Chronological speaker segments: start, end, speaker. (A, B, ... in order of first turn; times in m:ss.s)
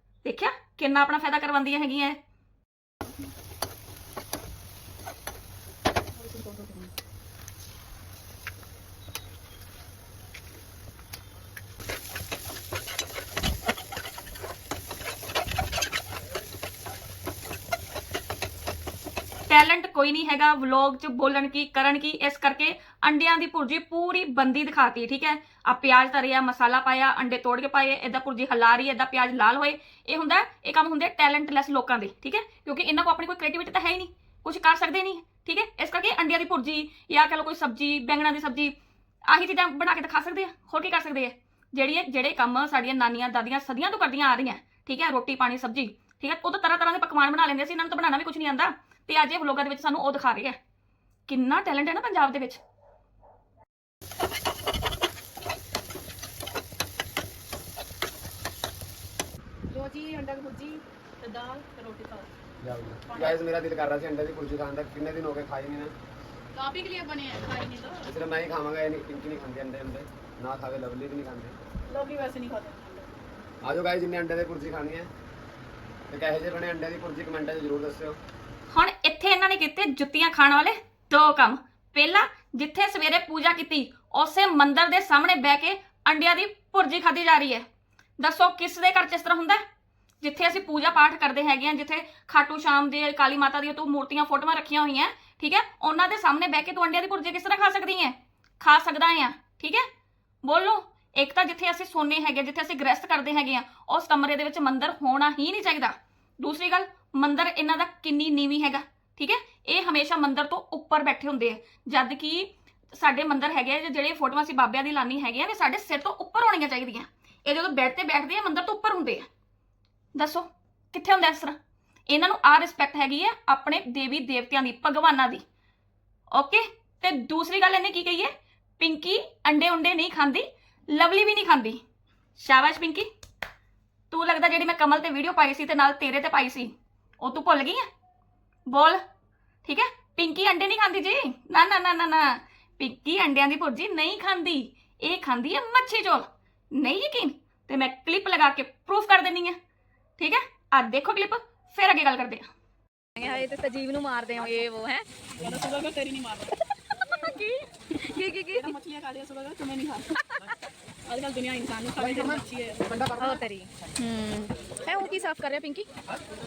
0:00.2-0:02.2 A
0:06.1-0:06.9 B
0:19.5-0:38.7 A
0:39.3-0:50.6 A
0:51.3-0:52.6 A
0:59.7-1:02.3 B
1:02.6-1:05.9 C
1:03.1-1:03.4 B
1:06.5-1:08.1 B
1:08.0-1:11.6 C
1:11.9-1:13.2 B
1:13.6-1:15.1 C
1:16.1-1:18.2 C
1:18.7-1:27.6 A
1:28.2-1:29.6 A
1:30.2-1:39.9 A
1:40.4-1:59.3 A
2:00.1-2:01.6 A
2:02.1-2:05.4 A
2:06.3-2:11.8 A
2:12.4-2:13.1 A
2:14.1-2:17.9 A
2:18.7-2:19.0 A
2:19.6-2:29.6 A
2:30.2-2:32.5 A
2:33.2-2:35.0 D
2:35.4-2:36.5 B
2:36.9-2:38.7 D
2:38.5-2:40.2 B
2:41.1-2:43.4 B
2:42.0-2:43.4 C
2:43.2-2:45.9 D